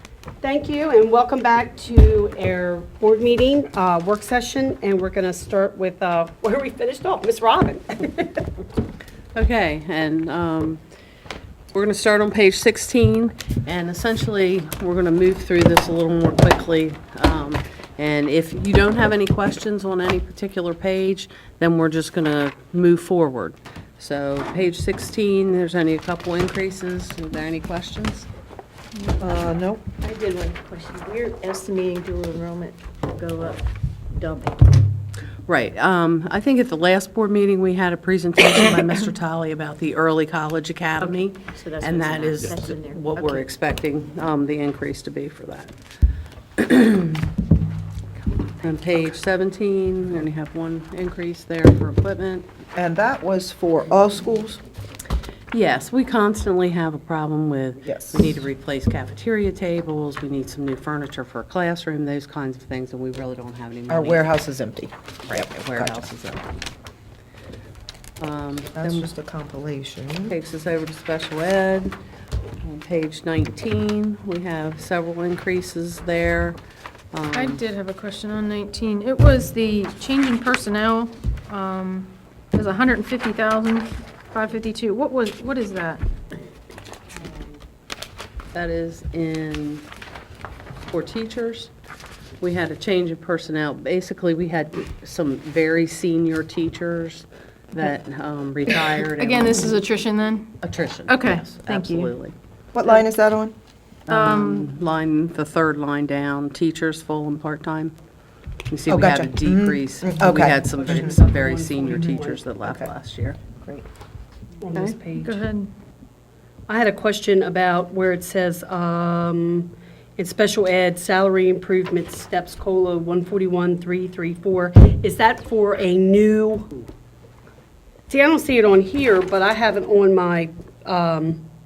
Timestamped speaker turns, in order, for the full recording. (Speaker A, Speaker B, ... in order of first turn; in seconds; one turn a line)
Speaker A: 0.4-8.4
Speaker B: 9.3-10.8
Speaker B: 11.7-28.3
Speaker C: 29.2-29.8
Speaker D: 30.0-34.7
Speaker B: 35.5-45.7
Speaker D: 41.4-43.5
Speaker B: 46.6-47.3
Speaker B: 48.6-52.5
Speaker C: 52.8-54.6
Speaker B: 55.5-64.2
Speaker C: 57.8-58.4
Speaker C: 63.9-66.0
Speaker B: 65.3-66.5
Speaker B: 68.2-69.1
Speaker C: 68.8-70.3
Speaker B: 70.3-72.0
Speaker B: 72.6-76.6
Speaker B: 77.1-77.6
Speaker E: 77.3-86.0
Speaker B: 88.5-89.9
Speaker B: 90.9-91.7
Speaker B: 92.4-99.8
Speaker E: 99.0-102.1
Speaker B: 100.6-102.3
Speaker C: 102.7-103.5
Speaker B: 104.1-108.0
Speaker E: 104.1-104.7
Speaker B: 108.7-113.4
Speaker C: 108.9-111.2
Speaker A: 110.7-112.4
Speaker C: 112.6-112.9
Speaker C: 113.5-113.9
Speaker A: 114.6-115.4
Speaker E: 115.2-115.7
Speaker A: 116.7-126.8
Speaker A: 128.1-131.4